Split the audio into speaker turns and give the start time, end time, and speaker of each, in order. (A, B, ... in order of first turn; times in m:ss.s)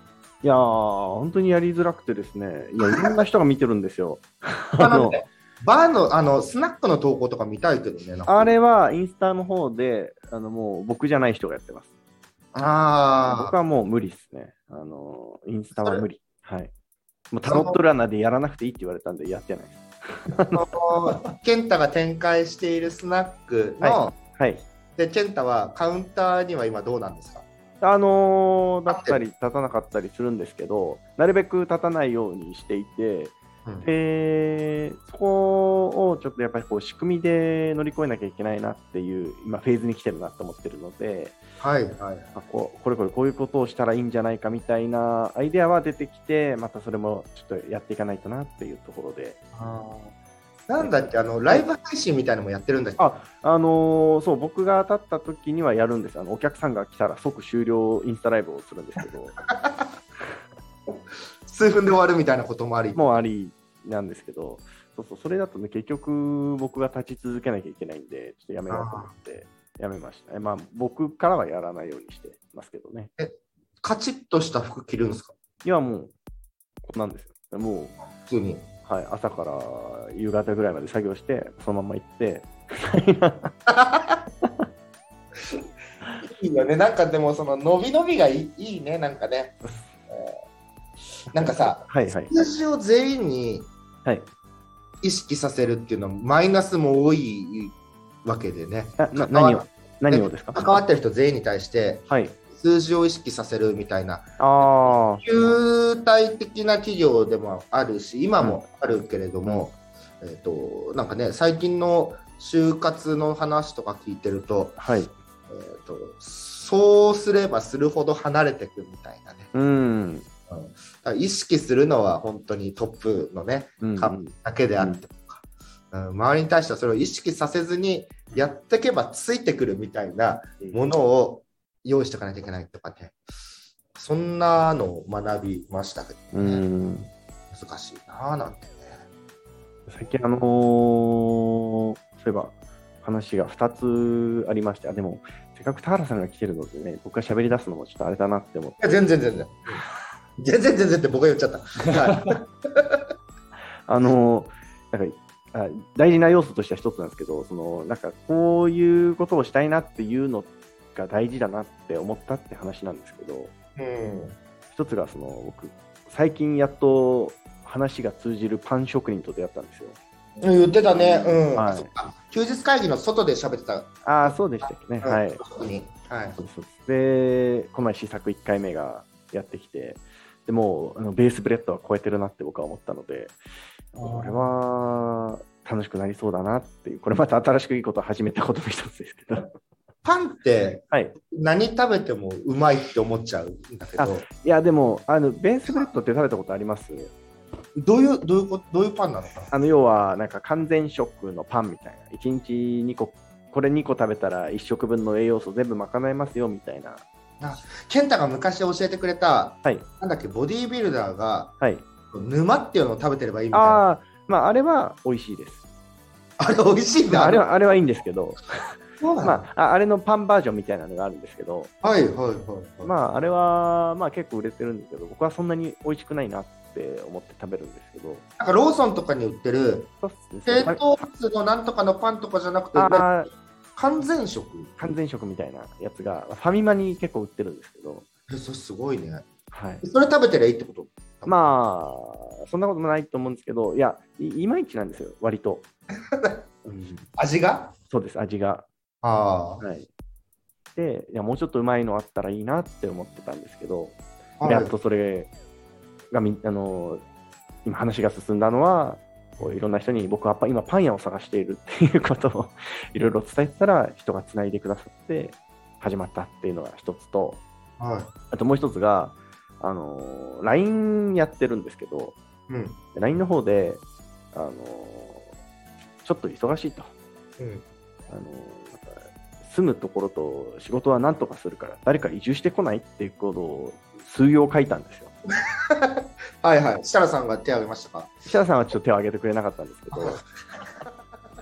0:00.4-0:05.2 A
0:02.8-0:03.2 B
0:04.8-0:08.6 B
0:08.3-0:11.9 A
0:12.5-0:13.5 B
0:13.2-0:16.7 A
0:15.8-0:16.0 B
0:17.3-0:20.6 A
0:17.4-0:17.8 B
0:20.5-0:24.2 B
0:23.8-0:24.6 A
0:25.0-0:27.4 B
0:27.8-0:41.4 A
0:28.9-0:29.2 B
0:41.6-0:42.4 B
0:42.3-0:49.4 A
0:49.5-0:50.1 B
0:50.7-0:53.1 B
0:50.8-0:51.6 A
0:53.0-0:59.4 A
0:59.5-0:59.9 B
1:01.4-1:03.1 B
1:02.9-1:13.1 A
1:08.7-1:09.1 B
1:13.2-1:15.3 B
1:15.6-1:16.1 A
1:16.8-1:18.0 A
1:18.2-1:18.7 B
1:18.8-1:23.5 A
1:23.7-1:24.2 B
1:26.2-1:29.6 B
1:29.6-1:29.9 A
1:30.1-1:30.4 B
1:31.3-1:33.7 B
1:31.4-1:32.3 A
1:35.0-1:54.8 B
1:39.0-1:40.8 A
1:42.1-1:42.4 A
1:44.4-1:45.2 A
1:48.4-1:48.7 A
1:54.8-1:55.1 A
1:55.5-1:59.5 B
1:59.5-2:00.3 A
2:00.5-2:13.2 B
2:03.8-2:05.0 A
2:13.9-2:16.6 B
2:16.3-2:17.1 A
2:17.5-2:19.0 B
2:19.9-2:28.8 A
2:28.8-2:29.8 B
2:30.4-2:33.1 B
2:33.9-2:43.5 A
2:43.8-2:44.4 B
2:44.7-2:50.0 A
2:50.4-2:54.4 B
2:51.0-2:51.9 A
2:54.0-2:55.4 A
2:55.0-2:56.4 B
2:56.4-3:03.4 A
3:03.9-3:09.5 A
3:04.0-3:04.5 B
3:10.0-3:14.2 B
3:10.9-3:11.1 A
3:14.0-3:17.1 A
3:17.7-3:19.5 B
3:19.5-3:27.0 A
3:27.4-3:33.8 B
3:33.5-3:35.6 A
3:36.4-3:37.4 B
3:37.1-3:41.7 A
3:39.0-3:39.5 B
3:41.8-3:42.9 B
3:42.8-3:48.2 A
3:48.4-3:49.9 B
3:50.0-3:51.0 A
3:50.4-3:55.0 B
3:52.7-3:53.3 A
3:54.8-3:58.0 A
3:58.3-3:59.3 B
3:59.5-3:59.8 A
3:59.8-4:01.4 B
4:01.3-4:05.6 A
4:06.1-4:06.5 B
4:06.6-4:07.1 A
4:07.2-4:07.7 B
4:07.9-4:08.7 A
4:09.0-4:09.6 B
4:09.6-4:09.9 A
4:10.7-4:15.3 A
4:14.4-4:14.7 B
4:16.1-4:17.0 A
4:17.6-4:27.4 A
4:27.8-4:28.1 B
4:28.3-4:32.2 A
4:32.5-4:32.8 B
4:32.9-4:33.8 A
4:34.3-4:35.3 A
4:36.0-4:36.9 A
4:37.4-4:37.6 B
4:38.1-4:45.1 A
4:45.7-4:48.2 B
4:48.2-4:50.2 A
4:49.9-4:50.9 B